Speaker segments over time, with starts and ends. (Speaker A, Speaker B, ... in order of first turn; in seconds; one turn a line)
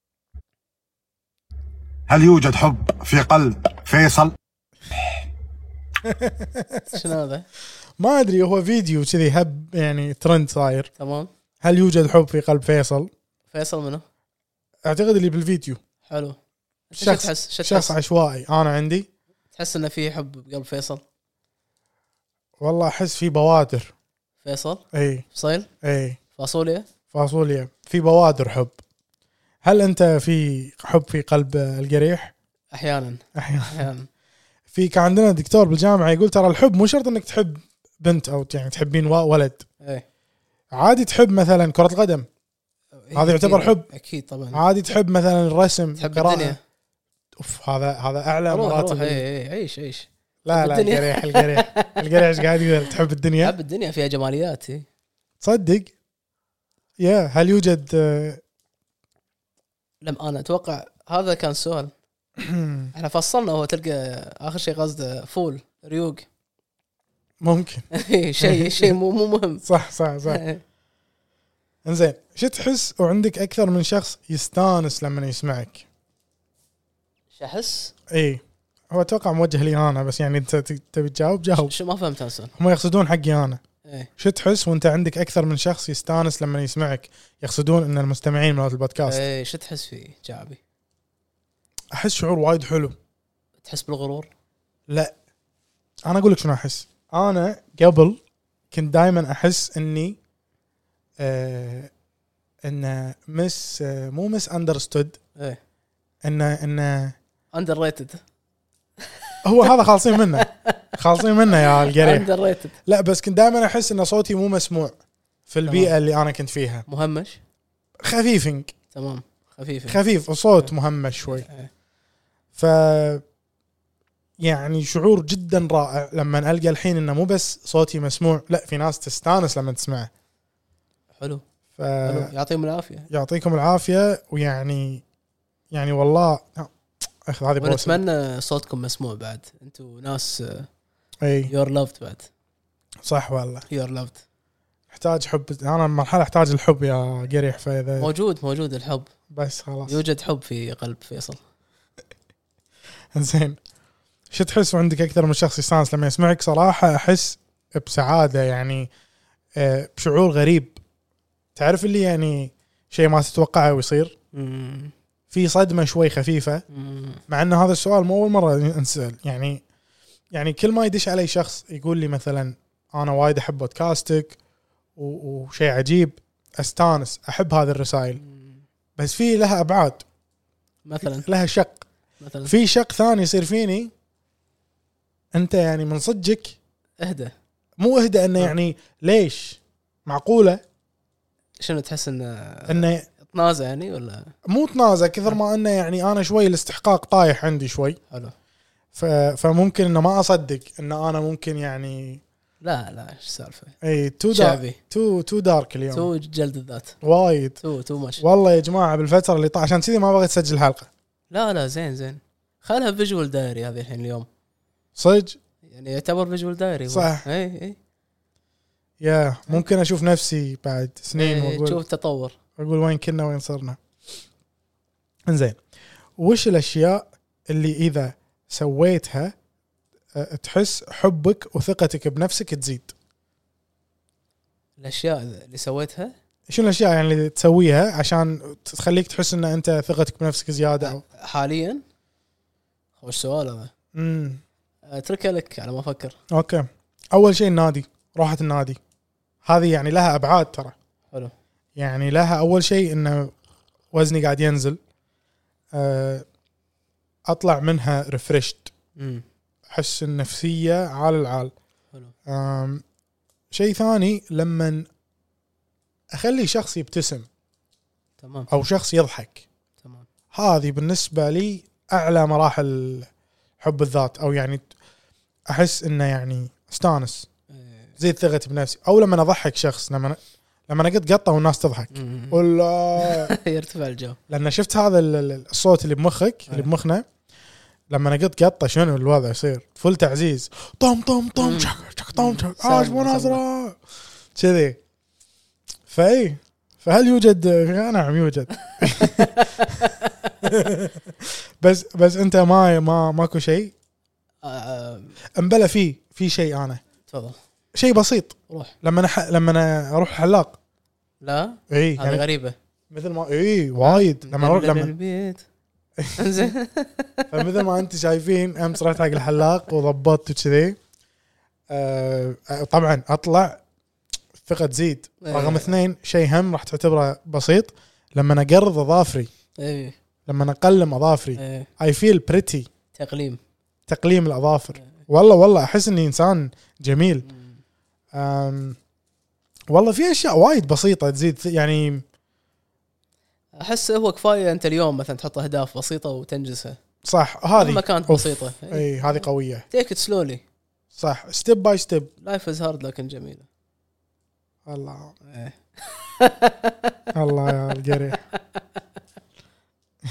Speaker A: 2.1-4.3
Speaker B: 6.0-7.0
Speaker C: 6.9-7.5
Speaker B: 8.0-10.9
Speaker C: 11.0-11.3
Speaker B: 11.6-13.1
Speaker C: 13.5-14.0
Speaker B: 14.8-15.8
Speaker C: 16.1-16.4
Speaker C: 16.9-17.9
Speaker B: 17.0-19.1
Speaker C: 19.5-21.0
Speaker B: 22.6-23.9
Speaker C: 24.4-25.7
Speaker B: 24.9-25.2
Speaker B: 25.8-26.2
Speaker C: 26.4-26.9
Speaker B: 27.1-28.7
Speaker B: 29.6-32.3
Speaker C: 32.7-34.1
Speaker B: 33.4-33.8
Speaker B: 34.7-39.6
Speaker B: 40.7-42.3
Speaker C: 42.9-44.6
Speaker B: 43.1-43.9
Speaker B: 44.5-46.6
Speaker C: 46.0-46.6
Speaker B: 47.4-49.2
Speaker C: 48.5-52.8
Speaker B: 50.4-53.5
Speaker C: 53.4-54.9
Speaker B: 55.4-55.9
Speaker B: 57.0-58.4
Speaker C: 60.0-61.9
Speaker B: 62.4-62.9
Speaker C: 62.9-66.2
Speaker B: 67.4-67.8
Speaker C: 67.9-69.7
Speaker B: 68.4-68.9
Speaker B: 69.6-70.4
Speaker C: 70.2-70.6
Speaker B: 71.8-75.8
Speaker C: 77.3-77.9
Speaker B: 78.1-81.7
Speaker C: 81.5-82.5
Speaker B: 82.6-83.6
Speaker C: 83.8-84.1
Speaker B: 84.2-89.2
Speaker C: 89.0-90.6
Speaker B: 91.9-92.9
Speaker C: 93.6-94.3
Speaker B: 94.9-95.1
Speaker B: 96.0-98.2
Speaker B: 98.7-100.2
Speaker B: 101.2-101.9
Speaker B: 102.6-105.2
Speaker B: 106.2-107.1
Speaker C: 107.5-108.2
Speaker C: 109.1-109.7
Speaker B: 109.4-112.3
Speaker C: 110.3-110.9
Speaker C: 111.5-112.8
Speaker B: 112.8-115.0
Speaker B: 115.5-116.8
Speaker C: 115.7-115.9
Speaker C: 116.9-117.4
Speaker B: 118.0-118.7
Speaker C: 118.9-120.0
Speaker B: 119.9-121.5
Speaker C: 121.3-121.7
Speaker B: 122.5-123.2
Speaker B: 124.4-130.1
Speaker C: 131.2-131.4
Speaker B: 131.8-132.3
Speaker C: 132.0-133.1
Speaker B: 133.1-135.0
Speaker B: 135.7-136.7
Speaker B: 137.2-138.0
Speaker C: 137.6-140.7
Speaker B: 141.2-141.5
Speaker C: 141.5-142.3
Speaker B: 143.0-143.6
Speaker C: 143.7-144.2
Speaker B: 144.9-148.1
Speaker C: 148.0-149.1
Speaker B: 149.3-150.0
Speaker C: 149.9-151.4
Speaker B: 153.1-153.6
Speaker B: 154.3-158.9
Speaker B: 159.6-160.8
Speaker B: 161.6-164.1
Speaker C: 164.3-164.9
Speaker B: 165.3-166.6
Speaker C: 166.7-167.2
Speaker B: 167.3-169.6
Speaker B: 170.3-174.3
Speaker B: 175.0-178.2
Speaker C: 178.2-178.6
Speaker B: 179.0-180.0
Speaker C: 180.8-181.2
Speaker B: 181.0-181.8
Speaker C: 182.2-182.5
Speaker B: 182.4-183.9
Speaker B: 185.3-186.6
Speaker C: 187.0-187.3
Speaker B: 187.8-190.6
Speaker C: 191.6-194.3
Speaker B: 192.7-193.0
Speaker B: 194.4-198.0
Speaker B: 198.9-202.2
Speaker C: 202.6-203.7
Speaker B: 203.8-206.1
Speaker C: 204.3-204.8
Speaker C: 205.9-207.0
Speaker B: 207.0-207.6
Speaker C: 207.6-208.2
Speaker B: 208.2-210.9
Speaker C: 211.3-214.3
Speaker B: 214.9-215.4
Speaker C: 215.7-217.8
Speaker B: 216.9-217.2
Speaker B: 219.0-221.8
Speaker C: 221.1-222.4
Speaker B: 222.6-223.8
Speaker B: 225.3-225.6
Speaker B: 226.2-229.3
Speaker B: 230.1-232.9
Speaker C: 234.8-236.1
Speaker B: 236.5-241.0
Speaker C: 240.8-241.8
Speaker C: 243.0-243.7
Speaker B: 243.9-244.4
Speaker C: 244.9-246.2
Speaker B: 246.3-248.8
Speaker B: 249.4-250.7
Speaker B: 251.8-253.3
Speaker B: 253.9-254.8
Speaker B: 255.7-256.2
Speaker B: 257.3-258.7
Speaker C: 259.0-259.2
Speaker B: 259.7-261.5
Speaker B: 262.3-262.8
Speaker B: 263.5-264.9
Speaker B: 266.1-267.3
Speaker C: 268.2-268.5
Speaker B: 268.5-269.4
Speaker C: 269.8-270.1
Speaker B: 270.3-273.1
Speaker B: 273.6-274.6
Speaker B: 275.5-277.3
Speaker C: 277.5-277.9
Speaker B: 278.0-283.3
Speaker C: 281.9-282.4
Speaker C: 283.0-284.2
Speaker B: 284.3-287.1
Speaker B: 287.9-293.8
Speaker C: 291.4-293.4
Speaker B: 294.3-294.8
Speaker B: 295.9-299.9
Speaker C: 298.7-300.3
Speaker B: 300.4-303.7
Speaker C: 304.4-305.1
Speaker B: 305.4-306.8
Speaker C: 307.1-307.4
Speaker B: 307.7-310.6
Speaker C: 308.5-308.7
Speaker C: 311.2-312.5
Speaker B: 311.7-312.2
Speaker B: 312.9-314.9
Speaker C: 313.8-315.4
Speaker B: 316.0-316.5
Speaker C: 316.1-317.6
Speaker B: 317.3-320.8
Speaker B: 321.7-323.6
Speaker B: 324.4-329.3
Speaker C: 325.2-325.7
Speaker C: 329.6-329.9
Speaker B: 330.3-332.7
Speaker C: 331.4-331.7
Speaker C: 332.9-333.4
Speaker B: 333.9-337.3
Speaker C: 337.2-337.6
Speaker B: 338.1-338.8
Speaker B: 339.7-342.0
Speaker C: 343.6-346.8
Speaker B: 347.0-349.6
Speaker C: 347.6-350.4
Speaker B: 350.9-352.1
Speaker C: 352.2-353.4
Speaker B: 354.7-355.1
Speaker C: 355.2-357.0
Speaker B: 357.1-358.2
Speaker C: 357.9-358.6